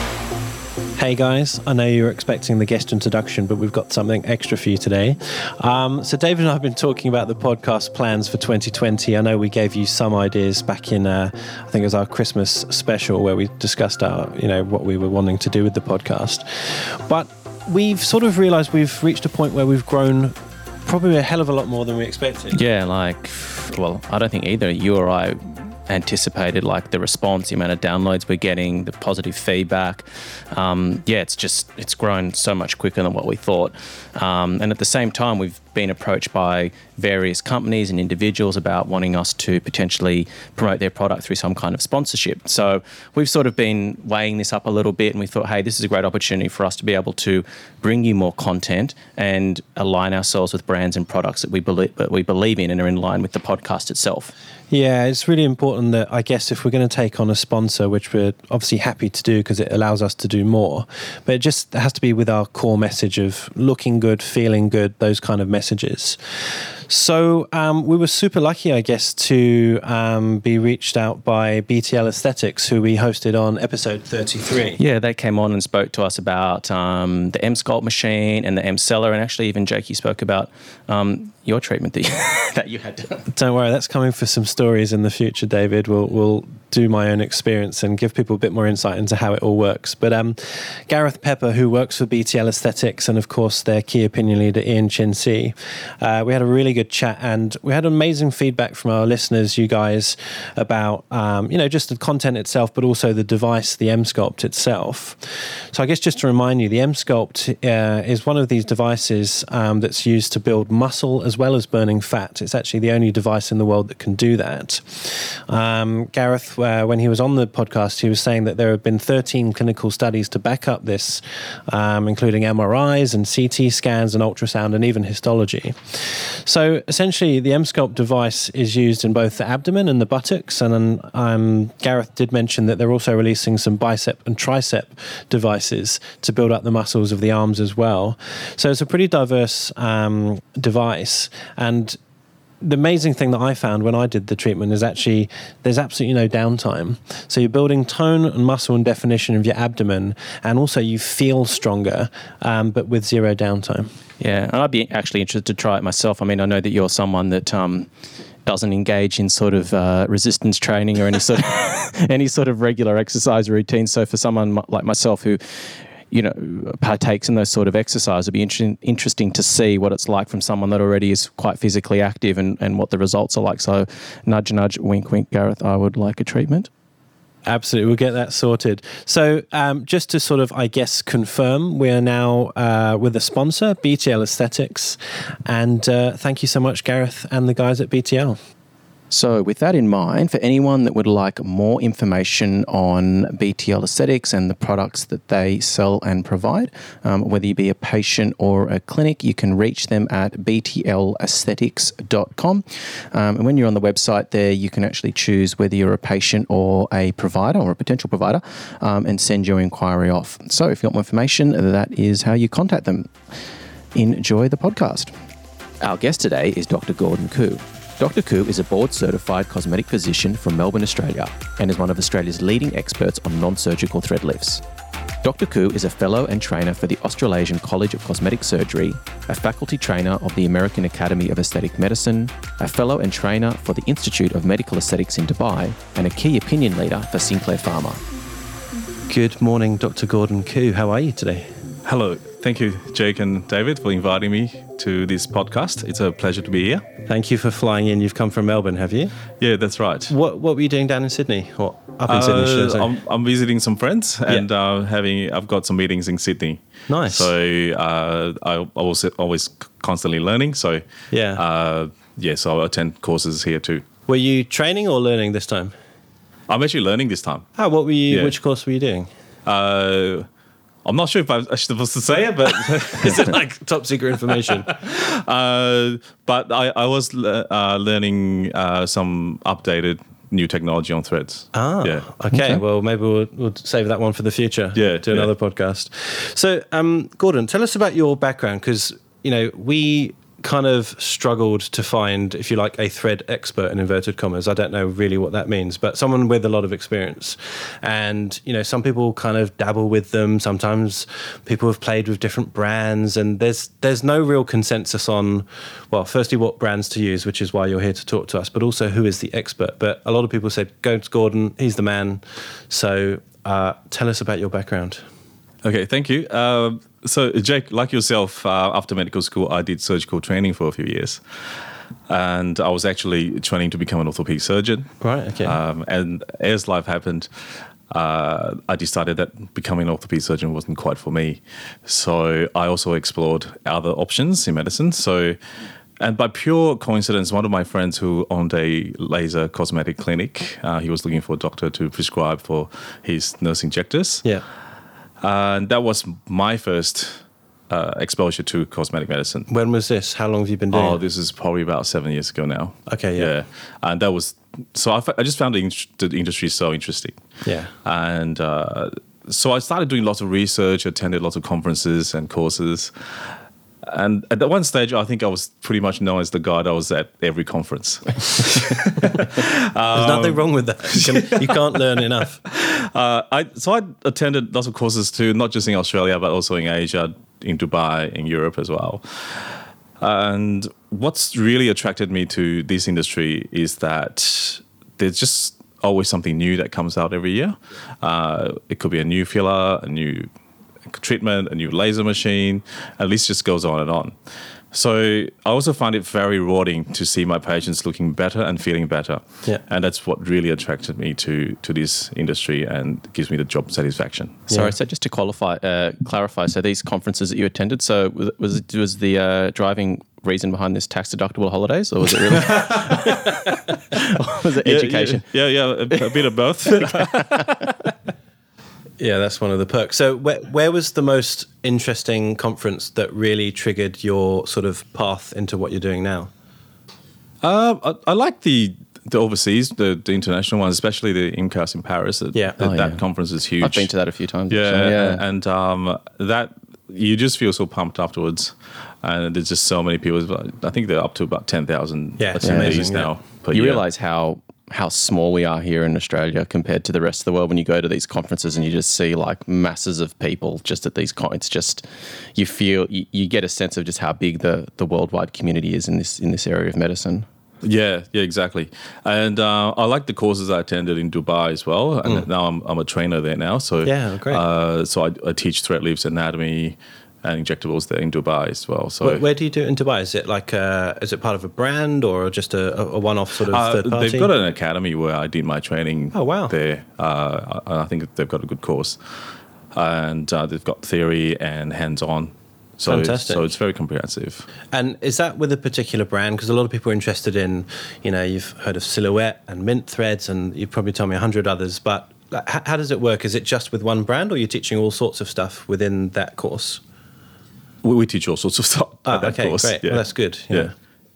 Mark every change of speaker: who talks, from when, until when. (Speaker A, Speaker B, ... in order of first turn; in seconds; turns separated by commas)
Speaker A: 1.0-20.3, Speaker A: 20.9-22.6, Speaker B: 22.5-54.3, Speaker A: 54.7-66.2, Speaker A: 66.9-74.8, Speaker B: 74.8-83.3, Speaker A: 83.3-105.2, Speaker A: 105.7-142.0, Speaker A: 142.6-153.9, Speaker B: 154.2-157.9, Speaker B: 158.4-176.7, Speaker A: 177.4-188.4, Speaker B: 189.1-213.1, Speaker B: 213.9-215.1, Speaker B: 215.8-224.6, Speaker B: 225.2-238.0, Speaker A: 239.1-241.5, Speaker C: 241.8-246.9, Speaker A: 247.0-249.1, Speaker C: 249.4-250.1, Speaker A: 250.1-252.9, Speaker C: 252.1-260.8, Speaker A: 256.9-257.3, Speaker A: 261.1-261.4, Speaker C: 261.3-263.8, Speaker A: 264.1-265.7, Speaker C: 266.5-267.5, Speaker A: 267.6-269.1, Speaker C: 269.4-270.2, Speaker C: 270.8-273.4, Speaker A: 272.8-274.7, Speaker C: 274.4-282.6, Speaker A: 281.5-315.0, Speaker C: 284.7-285.3, Speaker C: 315.6-321.2, Speaker C: 322.1-324.9, Speaker A: 325.0-325.6, Speaker C: 325.4-327.3, Speaker C: 327.9-335.4, Speaker C: 336.0-344.2, Speaker C: 345.2-349.5, Speaker A: 349.5-351.0, Speaker C: 350.7-357.2, Speaker A: 352.9-353.3, Speaker A: 357.4-357.7, Speaker C: 357.8-362.9, Speaker C: 363.8-371.6, Speaker A: 369.9-372.4, Speaker C: 372.4-390.3, Speaker C: 390.9-394.1, Speaker C: 394.7-404.4, Speaker B: 404.5-415.2, Speaker C: 412.4-413.2, Speaker C: 414.6-417.8, Speaker B: 415.9-416.2, Speaker B: 416.8-417.6, Speaker A: 419.0-426.3, Speaker C: 427.4-433.9, Speaker A: 432.3-432.6, Speaker B: 432.6-433.0, Speaker B: 433.6-435.2, Speaker C: 434.5-443.8, Speaker A: 442.2-443.1, Speaker B: 442.4-442.8, Speaker B: 443.5-457.2, Speaker C: 457.6-469.2, Speaker A: 463.8-464.4, Speaker A: 469.0-474.3, Speaker C: 473.5-479.0, Speaker A: 476.1-476.5, Speaker C: 479.7-484.4, Speaker A: 482.9-483.4, Speaker A: 484.7-496.8, Speaker C: 497.8-500.7, Speaker A: 499.1-500.7